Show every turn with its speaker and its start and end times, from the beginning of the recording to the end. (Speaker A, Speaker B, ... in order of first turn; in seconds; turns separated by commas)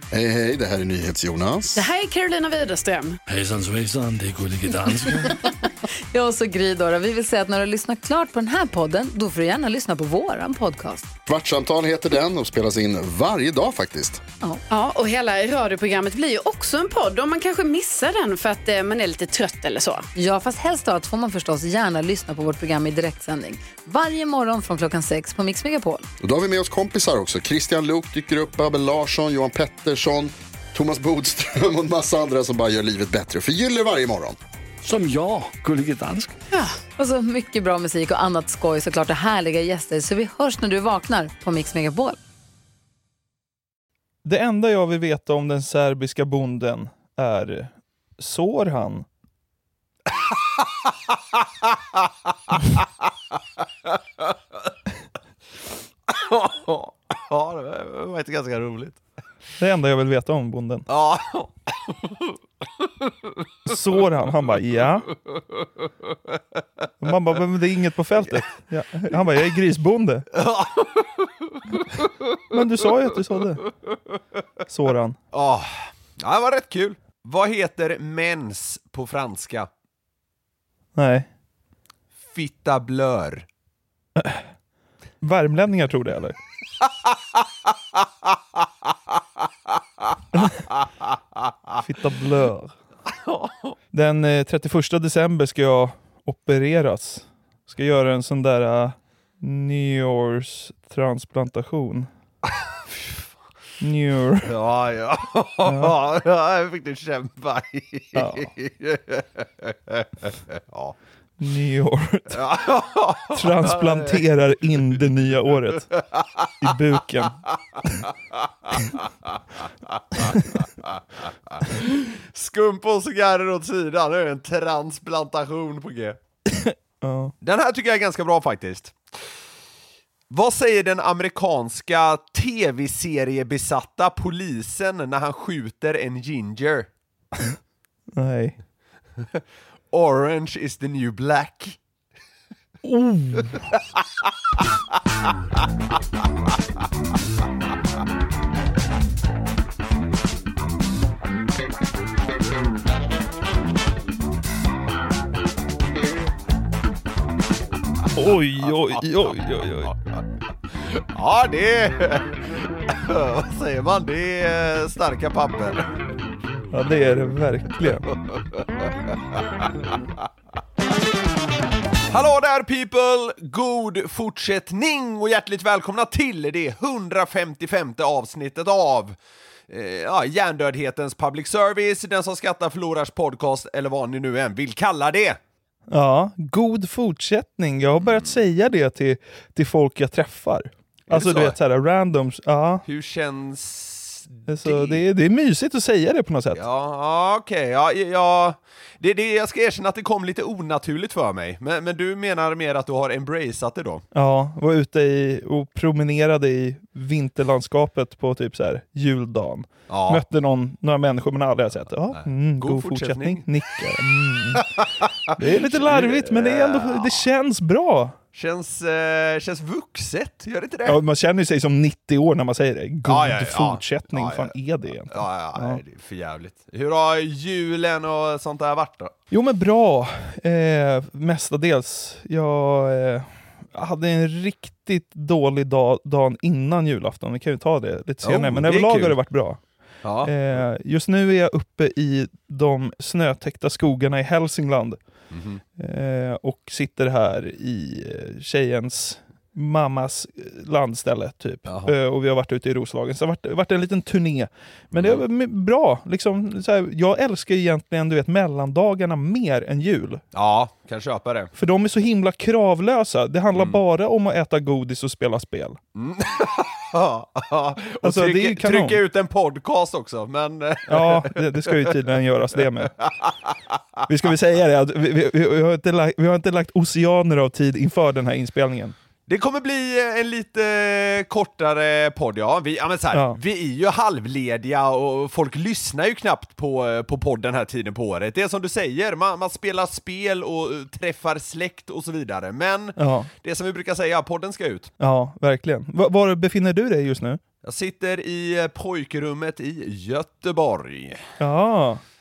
Speaker A: 0.1-1.9, Speaker B: 1.8-3.2, Speaker C: 3.3-5.4, Speaker D: 6.1-11.1, Speaker A: 11.3-14.2, Speaker B: 14.7-20.1, Speaker D: 20.2-26.1, Speaker A: 26.2-34.4, Speaker C: 34.8-36.3, Speaker D: 36.6-42.2, Speaker E: 44.2-49.1, Speaker F: 50.1-54.7, Speaker F: 56.1-59.0, Speaker E: 59.6-60.9, Speaker F: 60.9-63.4, Speaker E: 63.6-65.1, Speaker F: 65.1-67.1, Speaker E: 67.0-70.3, Speaker F: 68.2-68.5, Speaker F: 70.3-72.1, Speaker E: 72.5-73.7, Speaker E: 74.7-75.2, Speaker F: 75.3-79.7, Speaker E: 81.0-81.3, Speaker F: 82.3-83.5, Speaker E: 84.2-84.5, Speaker E: 85.2-86.4, Speaker F: 86.8-91.8, Speaker E: 91.8-92.8, Speaker F: 93.1-93.8, Speaker E: 93.9-102.1, Speaker F: 102.5-103.3, Speaker E: 103.8-104.5, Speaker F: 104.4-111.0, Speaker E: 105.7-105.9, Speaker E: 108.2-108.5, Speaker E: 111.4-112.4, Speaker F: 112.3-114.8, Speaker E: 113.3-115.9, Speaker F: 115.7-126.2, Speaker E: 116.6-117.4, Speaker E: 126.5-127.3, Speaker F: 127.4-129.3, Speaker F: 130.3-136.9, Speaker E: 138.2-138.6, Speaker F: 139.2-141.8, Speaker E: 142.8-143.7, Speaker F: 143.7-144.6, Speaker F: 145.2-145.6, Speaker E: 158.1-159.9, Speaker F: 158.7-160.2, Speaker F: 160.7-165.9, Speaker E: 166.7-168.1, Speaker F: 167.8-170.2, Speaker F: 172.1-179.2, Speaker F: 179.7-185.4, Speaker E: 185.9-192.8, Speaker F: 188.0-188.4, Speaker F: 191.1-191.6, Speaker F: 192.9-195.0, Speaker E: 194.5-196.6, Speaker F: 196.5-204.0, Speaker E: 204.1-214.7, Speaker F: 209.9-210.2, Speaker F: 212.1-213.5, Speaker F: 214.6-217.2, Speaker E: 215.4-218.2, Speaker F: 218.3-221.0, Speaker E: 220.8-225.8, Speaker F: 223.1-224.6, Speaker F: 225.1-229.1, Speaker E: 229.3-239.6, Speaker F: 238.2-239.2, Speaker F: 240.0-240.6, Speaker E: 240.2-245.0, Speaker F: 245.3-245.6, Speaker E: 245.8-260.2, Speaker F: 251.7-251.9, Speaker F: 254.9-255.2, Speaker F: 260.3-261.5, Speaker E: 261.6-265.8, Speaker F: 263.5-263.8, Speaker F: 265.9-272.0, Speaker E: 268.0-269.0, Speaker E: 270.9-273.0, Speaker F: 273.0-273.8, Speaker E: 274.1-279.0, Speaker F: 279.3-294.9, Speaker E: 283.1-283.4, Speaker E: 293.0-293.3, Speaker E: 295.0-297.4, Speaker F: 297.6-301.3, Speaker E: 301.4-302.0